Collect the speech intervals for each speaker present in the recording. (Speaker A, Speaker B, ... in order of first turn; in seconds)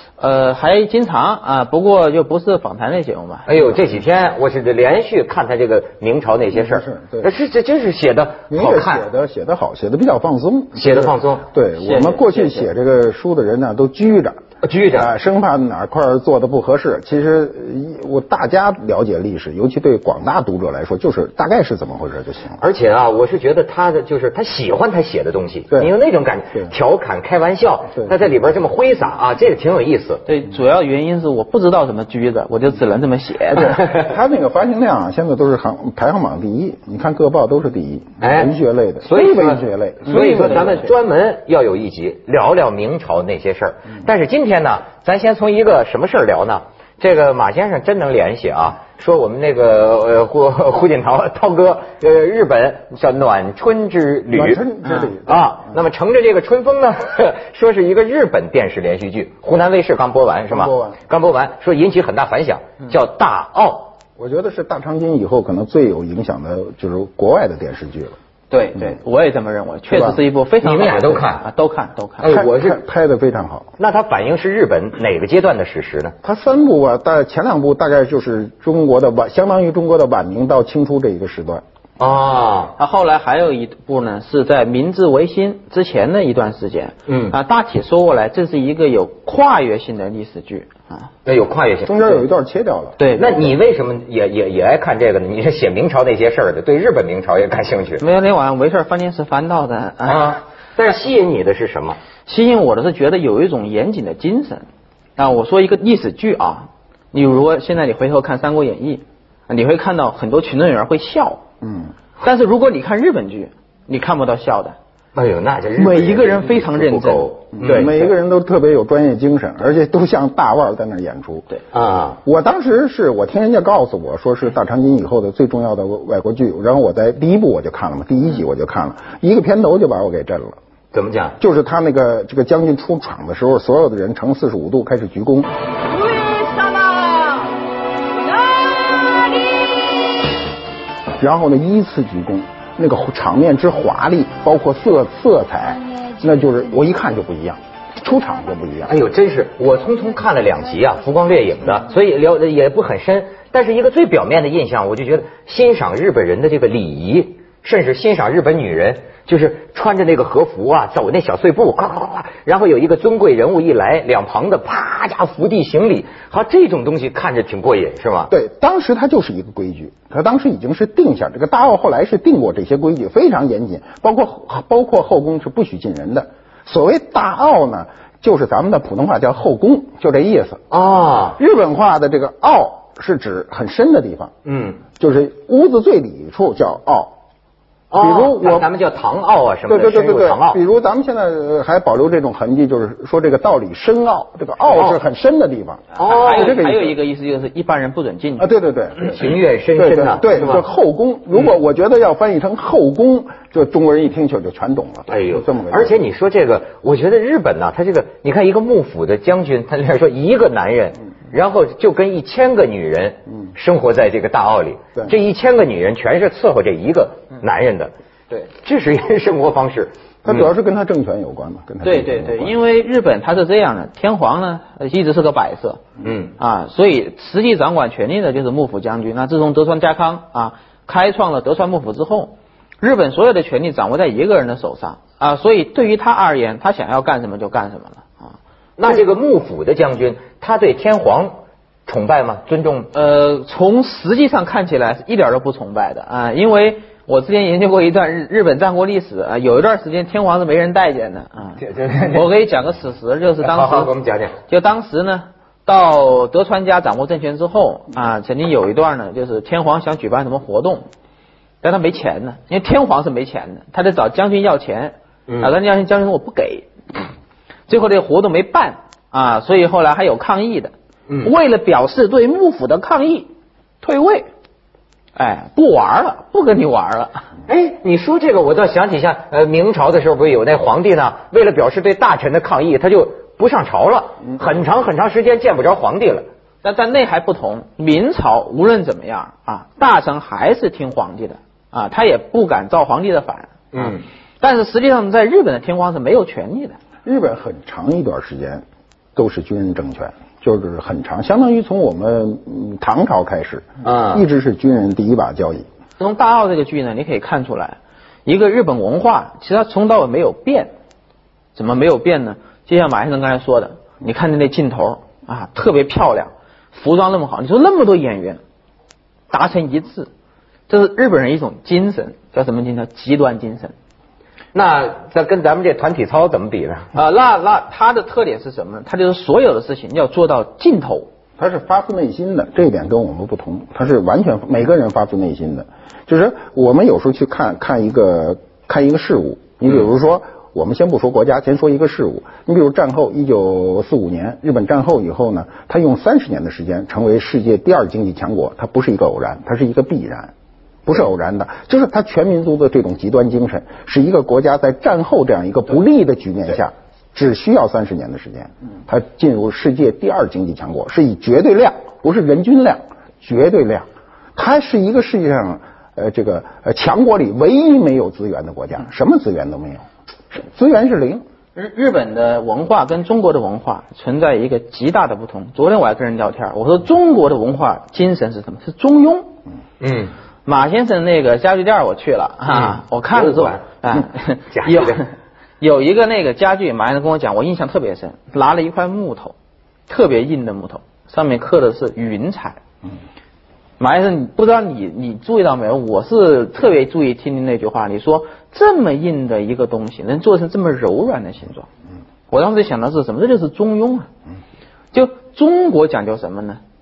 Speaker A: 0.2-3.5, 11.8-12.6, 30.2-33.8, 40.0-40.9, 68.5-72.3, 82.8-91.1, 93.0-93.5, 98.0-100.4, 102.2-104.6, 105.2-111.4, 112.2-114.8, 115.8-117.9, 135.9-137.5, 138.2-139.7, 196.0-198.5, 221.8-225.8, 226.4-238.3, 242.9-253.9, 254.5-260.9, 261.6-266.7, 267.7-273.3, 273.8-274.3, 275.1-277.3, 286.6-293.8, 294.4-296.8, 306.0-310.7, 311.5-318.4, 319.3-320.1, 320.7-323.7, 326.9-331.1, 371.5-379.3, 380.4-385.1, 385.6-389.3, 389.9-392.6, 393.8-401.7, 402.3-404.1, 404.9-406.6
Speaker B: 3.5-9.1, 10.7-11.4, 14.6-15.1, 22.6-30.2, 38.2-54.6, 55.3-63.9, 70.6-71.4, 72.2-72.8, 73.8-76.1, 82.0-82.7, 87.1-87.3, 91.2-92.0, 93.1-98.0, 100.0-102.0, 115.1-117.9, 121.7-122.2, 130.9-131.4, 148.9-168.3, 180.7-181.4, 184.4-184.8, 187.9-190.6, 194.7-195.0, 196.0-196.6, 199.0-200.6, 205.1-220.5, 226.0-226.3, 238.8-242.9, 251.6-252.3, 253.4-254.4, 277.5-286.3, 293.7-294.0, 303.8-304.2, 324.5-326.9, 379.8-380.1, 382.5-383.6, 384.5-385.0
Speaker C: 6.5-7.3, 8.5-14.4, 14.9-22.6, 33.6-40.8, 54.3-55.8, 60.5-61.0, 64.2-68.2, 69.9-70.2, 72.3-73.7, 76.2-81.6, 91.8-93.0, 111.6-111.9, 117.5-121.5, 122.2-130.6, 131.4-135.5, 141.2-148.9, 168.3-180.6, 181.4-184.3, 185.0-187.1, 188.0-188.7, 189.7-196.9, 198.4-199.2, 199.8-206.0, 220.2-222.5, 297.0-298.6, 299.1-305.6, 331.4-350.3, 350.9-371.2